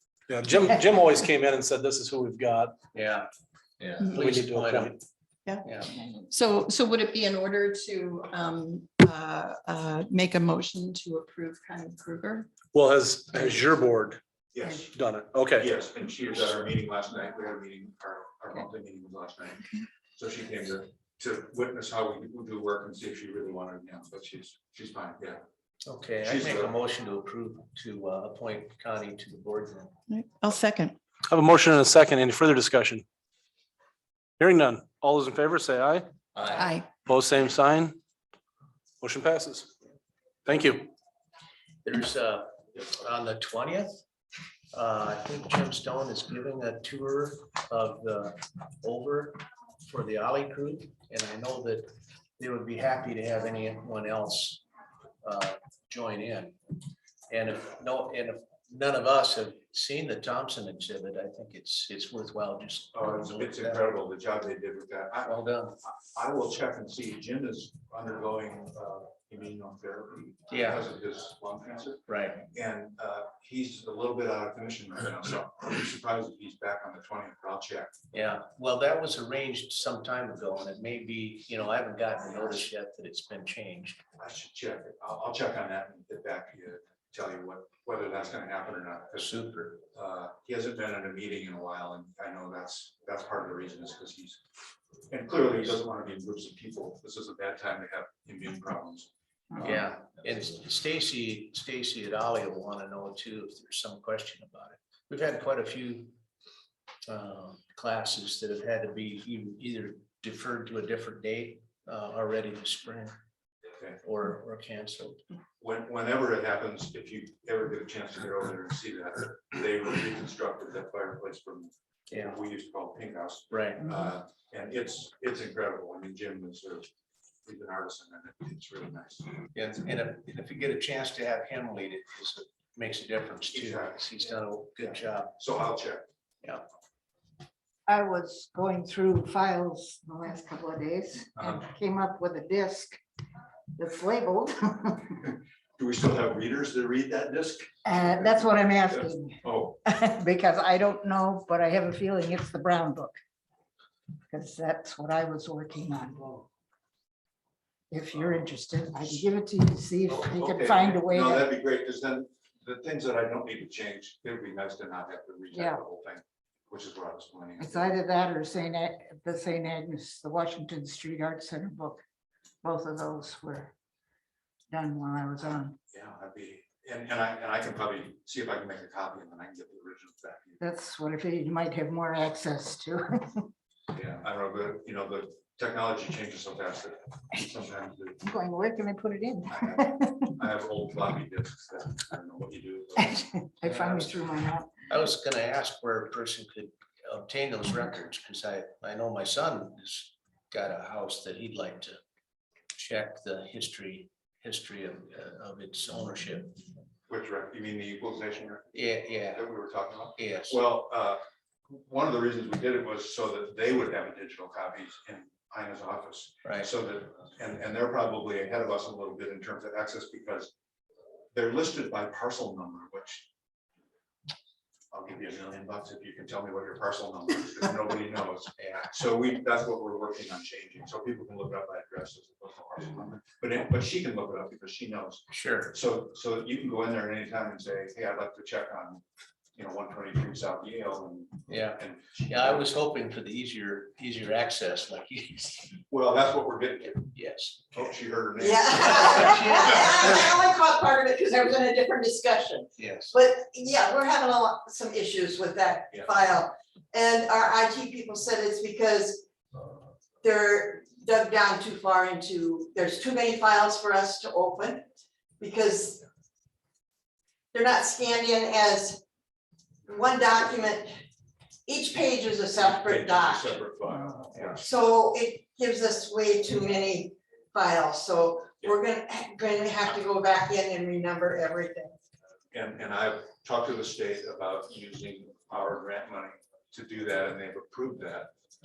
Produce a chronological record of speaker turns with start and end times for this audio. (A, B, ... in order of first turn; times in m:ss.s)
0:00.3-0:02.8 A
0:02.9-0:03.3 B
0:03.8-0:05.0 B
0:04.1-0:05.0 A
0:05.6-0:06.0 B
0:06.3-0:12.5 C
0:12.7-0:14.2 A
0:14.5-0:14.9 D
0:14.9-0:15.7 A
0:15.5-0:25.4 D
0:25.8-0:29.9 B
0:26.2-0:26.8 D
0:30.1-0:31.0 C
0:31.3-0:33.0 A
0:34.4-0:36.1 A
0:36.4-0:36.7 B
0:37.0-0:38.0 A
0:39.0-0:39.7 A
0:40.5-0:40.9 A
0:41.8-0:44.0 B
0:44.7-0:54.6 B
0:55.2-0:56.6 B
0:57.3-1:03.8 B
1:02.9-1:17.9 D
1:05.2-1:05.8 B
1:10.5-1:10.8 B
1:12.1-1:12.5 B
1:18.1-1:24.0 B
1:24.2-1:29.3 D
1:29.1-1:29.8 B
1:29.8-1:34.4 D
1:35.1-1:39.1 D
1:39.6-1:46.2 B
1:47.1-1:53.2 B
1:54.0-1:55.2 B
1:55.6-2:06.9 D
2:02.1-2:02.4 B
2:03.5-2:03.9 B
2:07.5-2:09.3 D
2:09.5-2:15.4 B
2:13.5-2:14.0 D
2:15.4-2:16.0 D
2:17.9-2:23.0 E
2:21.4-2:21.6 D
2:23.8-2:25.2 E
2:25.3-2:29.8 D
2:27.8-2:33.2 E
2:34.3-2:36.4 E
2:37.9-2:41.6 E
2:40.1-2:47.9 D
2:45.5-2:45.8 E
2:47.6-2:52.0 E
2:52.6-2:53.8 E
2:54.7-2:55.8 E
2:55.9-3:00.6 D
3:00.6-3:03.5 E
3:03.9-3:08.2 D
3:08.2-3:10.3 E
3:09.5-3:13.2 D
3:13.1-3:14.7 E
3:13.6-3:14.2 B
3:14.9-3:22.0 B
3:22.8-3:26.6 B
3:27.1-3:40.5 D
3:28.7-3:29.5 B
3:30.2-3:30.6 B
3:41.3-3:43.3 D
3:44.9-3:59.0 D
3:48.6-3:49.0 B
3:55.3-3:55.7 B
3:59.6-4:02.7 D
4:01.5-4:05.8 B
4:05.9-4:07.1 D
4:07.1-4:08.0 B
4:07.7-4:10.1 D
4:08.4-4:19.3 F
4:08.7-4:10.1 B
4:12.8-4:13.2 B
4:20.2-4:24.9 F
4:25.4-4:26.0 F
4:27.5-4:29.0 F
4:29.9-4:30.9 F
4:31.7-4:33.6 F
4:32.5-4:34.7 D
4:34.6-4:41.9 F
4:42.5-4:48.3 D